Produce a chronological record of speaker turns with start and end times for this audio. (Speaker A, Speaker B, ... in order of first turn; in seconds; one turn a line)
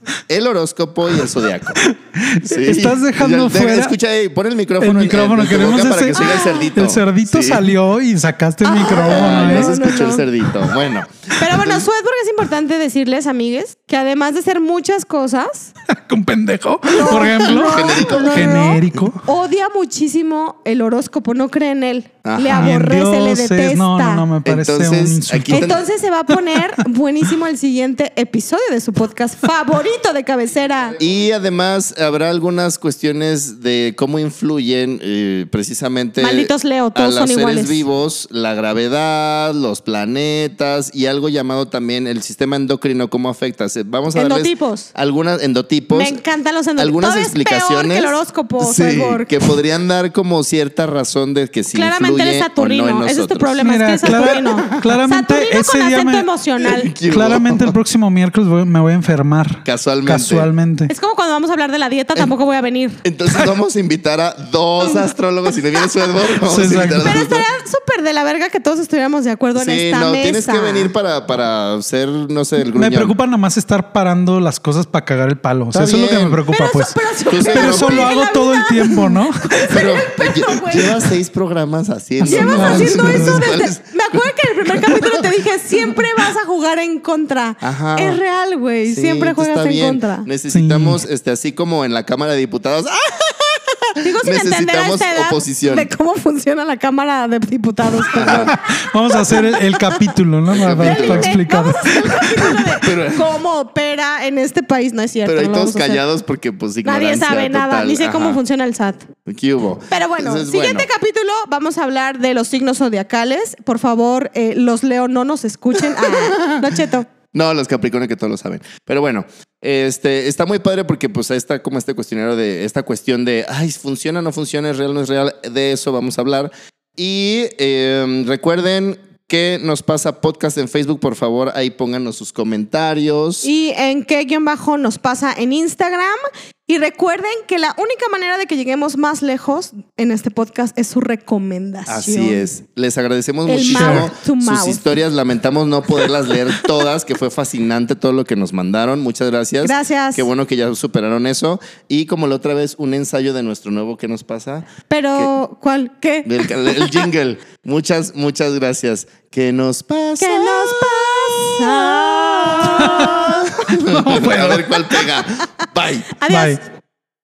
Speaker A: 0.3-1.9
Speaker B: 1.8-3.9
Speaker A: 2.4-7.7
Speaker B: 4.8-9.8
Speaker C: 6.1-6.7
Speaker C: 8.7-10.3
Speaker A: 8.7-11.9
Speaker C: 11.4-15.7
Speaker B: 15.9-19.2
Speaker C: 16.9-24.3
Speaker A: 17.1-19.0
Speaker A: 22.2-22.8
Speaker B: 22.5-26.8
Speaker A: 24.4-25.8
Speaker C: 25.5-31.0
Speaker A: 31.0-46.2
Speaker C: 36.2-37.8
Speaker C: 44.1-44.9
Speaker C: 45.9-49.5
Speaker A: 46.8-54.9
Speaker C: 51.7-56.9
Speaker B: 53.6-56.3
Speaker A: 56.6-57.7
Speaker B: 57.1-60.9
Speaker A: 59.6-60.5
Speaker C: 60.9-63.0
Speaker A: 63.0-67.5
Speaker C: 65.7-66.0
Speaker B: 66.5-67.1
Speaker C: 66.7-70.9
Speaker A: 69.5-73.1
Speaker B: 72.7-77.0
Speaker A: 75.7-76.4
Speaker C: 76.5-81.1
Speaker A: 77.3-78.1
Speaker B: 77.5-79.7
Speaker A: 79.7-85.3
Speaker B: 82.2-83.5
Speaker C: 82.2-90.3
Speaker A: 87.6-88.2
Speaker A: 88.9-95.9
Speaker B: 90.5-91.0
Speaker C: 94.0-100.0
Speaker A: 98.1-98.5
Speaker B: 98.2-102.1
Speaker A: 100.5-101.4
Speaker C: 100.7-106.0
Speaker A: 102.2-103.3
Speaker A: 105.2-108.4
Speaker C: 106.8-109.1
Speaker A: 109.2-110.9
Speaker C: 109.9-117.1
Speaker A: 116.0-116.7
Speaker A: 117.3-133.5
Speaker C: 133.4-142.4
Speaker A: 141.9-155.3
Speaker C: 143.5-144.8
Speaker B: 143.7-144.1
Speaker C: 149.6-150.3
Speaker C: 154.9-157.1
Speaker A: 156.2-166.2
Speaker C: 160.2-163.4
Speaker B: 162.6-164.9
Speaker C: 166.2-166.6
Speaker B: 166.3-166.6